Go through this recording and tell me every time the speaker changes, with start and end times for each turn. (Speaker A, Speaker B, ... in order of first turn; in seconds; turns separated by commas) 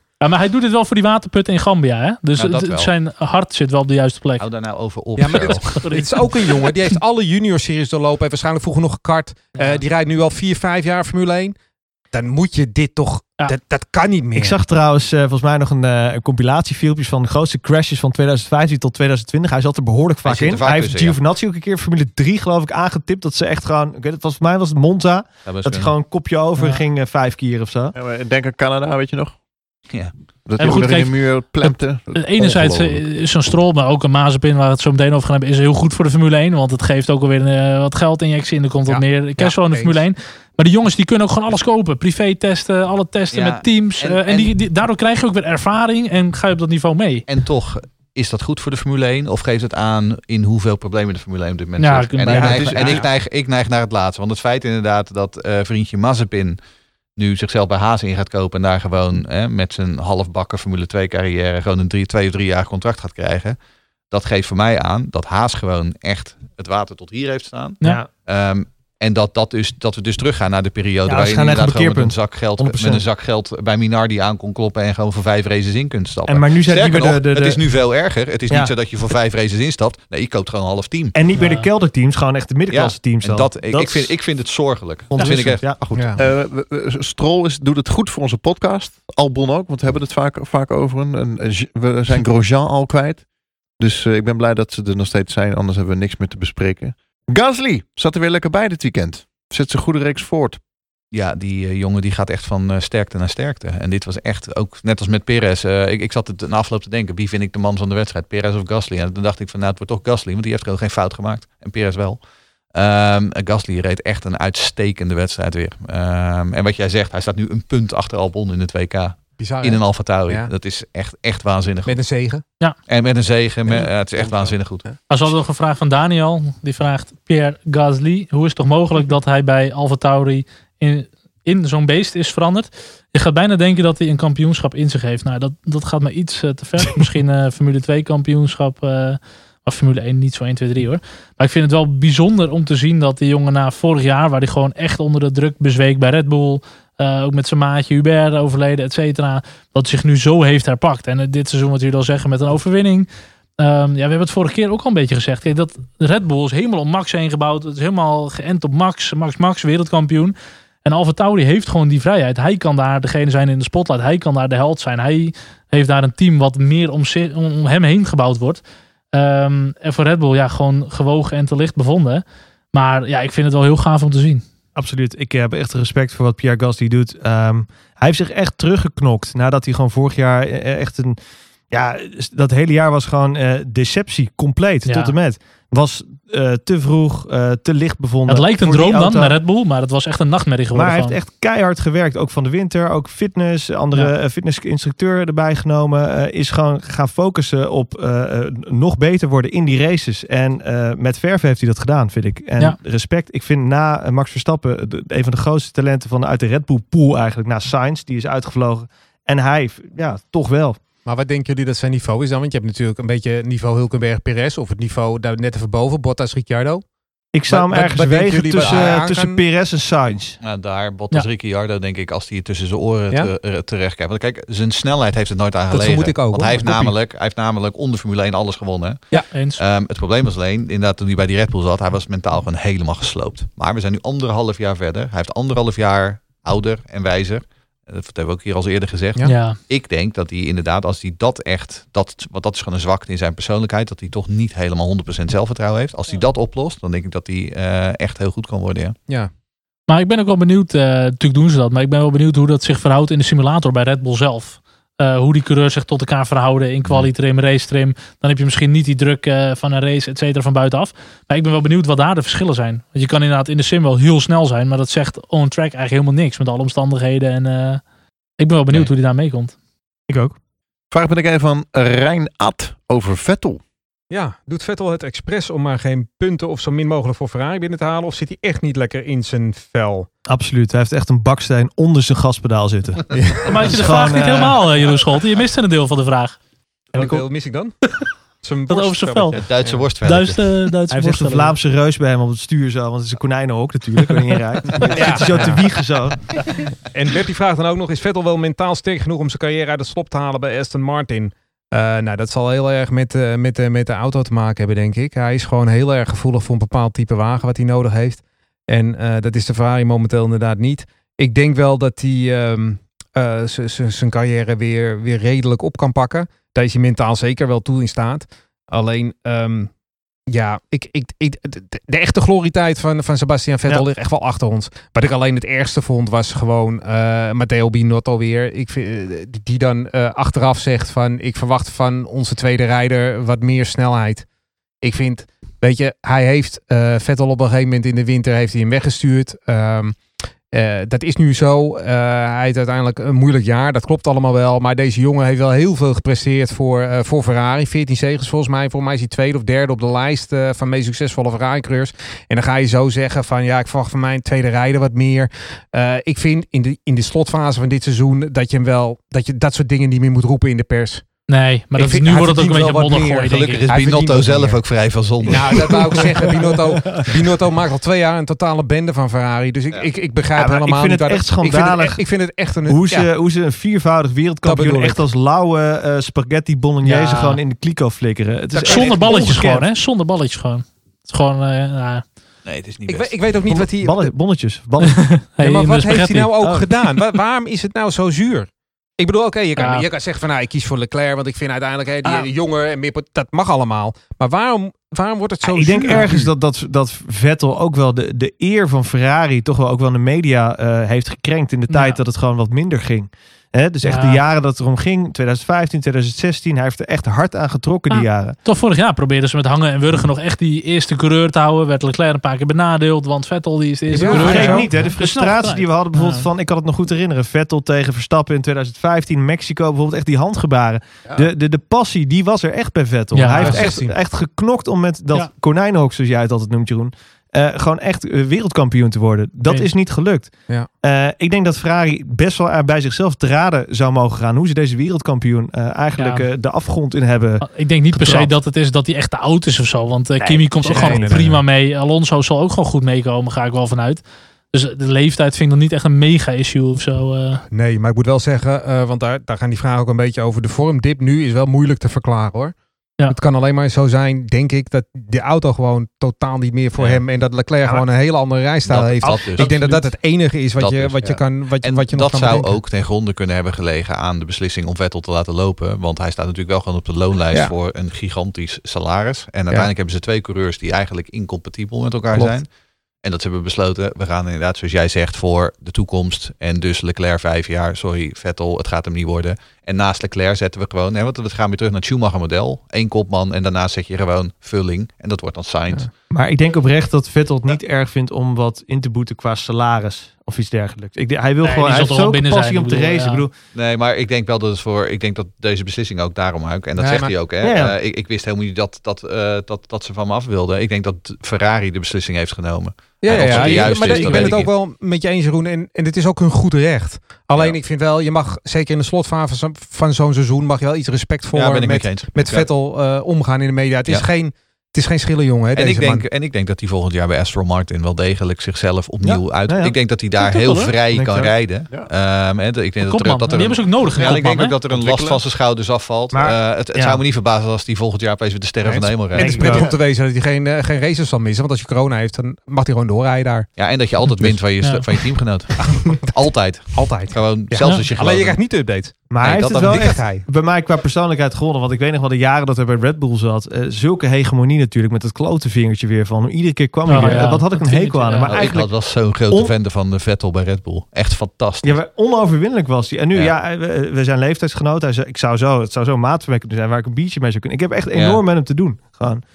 Speaker A: 0.2-4.4, Speaker B: 2.4-2.9, Speaker B: 4.4-5.8, Speaker C: 5.2-11.6, Speaker A: 5.4-6.7, Speaker A: 9.5-9.8, Speaker C: 12.1-14.6, Speaker D: 14.3-27.9, Speaker B: 20.2-21.2, Speaker B: 25.4-25.9, Speaker A: 26.6-26.8, Speaker E: 27.9-29.4, Speaker E: 30.4-33.0, Speaker A: 30.6-47.2, Speaker C: 38.9-40.0, Speaker B: 43.3-44.5, Speaker B: 47.3-56.6, Speaker A: 51.8-52.8, Speaker C: 52.2-53.0, Speaker B: 57.1-63.5, Speaker B: 64.1-81.2, Speaker D: 67.8-68.1, Speaker D: 71.1-73.0, Speaker D: 76.3-77.6, Speaker D: 81.1-84.1, Speaker A: 81.3-81.7, Speaker B: 82.7-85.6, Speaker D: 85.1-85.8, Speaker E: 85.9-93.2, Speaker C: 85.9-86.2, Speaker E: 93.8-100.6, Speaker B: 101.1-112.2, Speaker B: 112.7-122.0, Speaker C: 119.4-120.5, Speaker C: 121.8-122.4, Speaker B: 122.9-124.8, Speaker A: 125.1-153.1, Speaker A: 153.6-168.6, Speaker A: 169.1-174.4, Speaker D: 174.7-181.2, Speaker D: 181.7-189.4, Speaker A: 184.8-185.1, Speaker A: 188.3-191.2, Speaker D: 190.7-210.8, Speaker C: 211.1-216.8, Speaker D: 217.3-220.4, Speaker C: 217.5-219.4, Speaker B: 218.6-218.9, Speaker B: 220.4-229.0, Speaker C: 225.7-226.9, Speaker A: 229.3-229.6, Speaker B: 229.6-248.9, Speaker A: 239.2-239.6, Speaker A: 249.9-267.8, Speaker A: 268.4-269.5, Speaker D: 270.1-270.3, Speaker E: 270.9-273.6, Speaker C: 274.1-280.1, Speaker D: 280.3-284.6, Speaker C: 283.1-283.7, Speaker A: 283.4-286.4, Speaker C: 286.9-287.8, Speaker C: 288.4-289.8, Speaker A: 288.7-289.4, Speaker B: 289.3-290.4, Speaker A: 290.0-291.5, Speaker D: 290.9-296.3, Speaker C: 294.8-295.7, Speaker C: 296.8-319.7, Speaker C: 320.3-334.2, Speaker C: 334.8-340.0, Speaker C: 340.5-361.0, Speaker A: 361.3-363.6, Speaker C: 361.8-364.6, Speaker B: 363.3-366.1, Speaker C: 365.2-373.1, Speaker D: 365.8-367.1, Speaker D: 370.4-372.0, Speaker D: 372.7-379.7, Speaker C: 374.4-375.0, Speaker A: 376.8-377.4, Speaker B: 378.5-379.1, Speaker A: 378.6-382.0, Speaker B: 382.4-383.2, Speaker C: 382.9-384.1, Speaker D: 383.5-385.2, Speaker A: 385.0-386.3, Speaker C: 385.4-396.3, Speaker D: 386.4-386.6, Speaker A: 389.6-389.9, Speaker D: 395.4-408.4, Speaker A: 401.7-402.0, Speaker A: 403.8-404.2, Speaker A: 407.9-416.3, Speaker C: 413.9-414.8, Speaker D: 414.0-438.3, Speaker A: 423.1-423.7, Speaker C: 423.3-423.9, Speaker A: 436.0-436.3, Speaker A: 437.4-447.4, Speaker D: 440.2-441.2, Speaker C: 440.7-441.4, Speaker C: 447.5-452.5, Speaker C: 453.1-462.6, Speaker B: 458.7-459.6, Speaker D: 459.0-459.8, Speaker B: 460.6-472.5, Speaker B: 473.0-485.9, Speaker D: 486.1-493.3, Speaker A: 491.4-493.3, Speaker B: 493.5-504.5, Speaker C: 496.8-497.1, Speaker D: 497.4-497.8, Speaker C: 503.0-516.0, Speaker B: 511.3-512.5, Speaker B: 515.5-529.6, Speaker D: 519.0-519.7, Speaker A: 520.2-520.7, Speaker D: 520.9-521.3, Speaker A: 522.8-524.5, Speaker E: 524.7-525.2, Speaker D: 526.1-527.0, Speaker C: 528.6-533.5, Speaker D: 529.1-529.7, Speaker B: 533.6-538.4, Speaker C: 534.1-534.4, Speaker C: 535.6-536.0, Speaker C: 536.7-539.0, Speaker D: 539.1-548.8, Speaker B: 539.2-540.0, Speaker C: 539.6-540.2, Speaker A: 546.9-548.4, Speaker B: 548.2-551.8, Speaker D: 551.6-559.2, Speaker B: 557.9-558.2